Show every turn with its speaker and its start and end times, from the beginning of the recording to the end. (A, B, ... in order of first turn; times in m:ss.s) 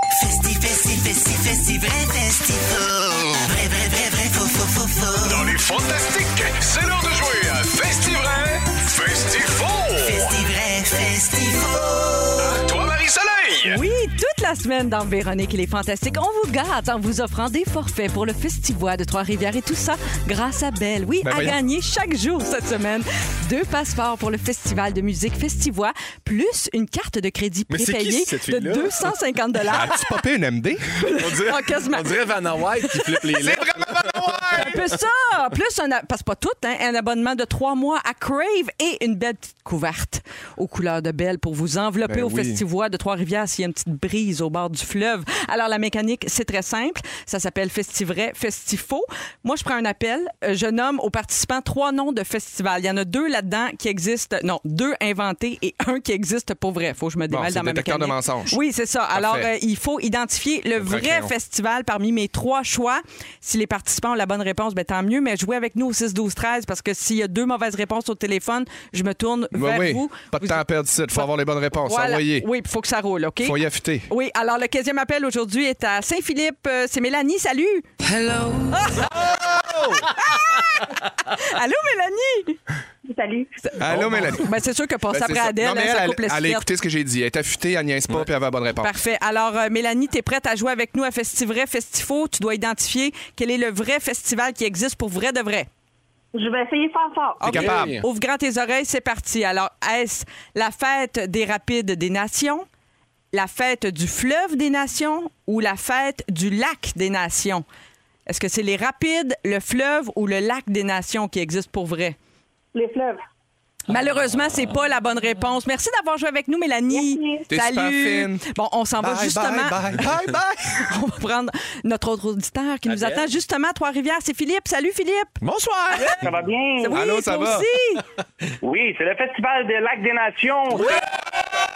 0:00.2-0:05.4 A
0:05.2-0:10.5 B
0:10.2-0:11.8 A
0:12.4-0:13.8 B
0:13.6-0:30.2 C
0:21.2-0:21.6 D
0:27.7-0:29.1 E
0:29.7-0:30.9 D
0:31.0-0:32.3 C
0:31.2-0:34.9 E
0:32.8-0:33.2 C
0:33.4-0:34.8 D
0:34.5-1:10.6 C
0:42.1-0:42.6 D
0:57.3-0:58.6 D
0:59.1-0:59.5 D
1:00.8-1:01.3 D
1:09.5-1:12.5 D
1:11.8-1:17.9 C
1:13.4-1:14.1 D
1:18.7-1:19.3 C
1:19.0-1:20.1 D
1:20.2-1:22.6 C
1:23.1-1:23.5 F
1:23.6-1:26.7 C
1:23.8-1:24.6 D
1:25.1-1:28.9 D
1:28.8-1:35.7 C
1:36.3-1:37.5 F
1:37.4-1:42.6 C
1:37.4-1:38.0 D
1:37.5-1:38.0 E
1:43.3-1:47.6 C
1:48.3-1:52.2 C
1:52.7-1:53.2 F
1:53.9-1:59.8 C
1:56.9-1:57.5 F
1:57.5-1:58.4 D
1:59.0-2:00.9 D
2:00.8-2:05.4 C
2:02.9-2:03.2 E
2:05.4-2:06.3 A
2:06.2-2:07.0 F
2:06.8-2:08.0 C
2:06.9-2:07.7 D
2:08.6-2:11.1 F
2:10.7-2:11.0 C
2:10.8-2:11.0 D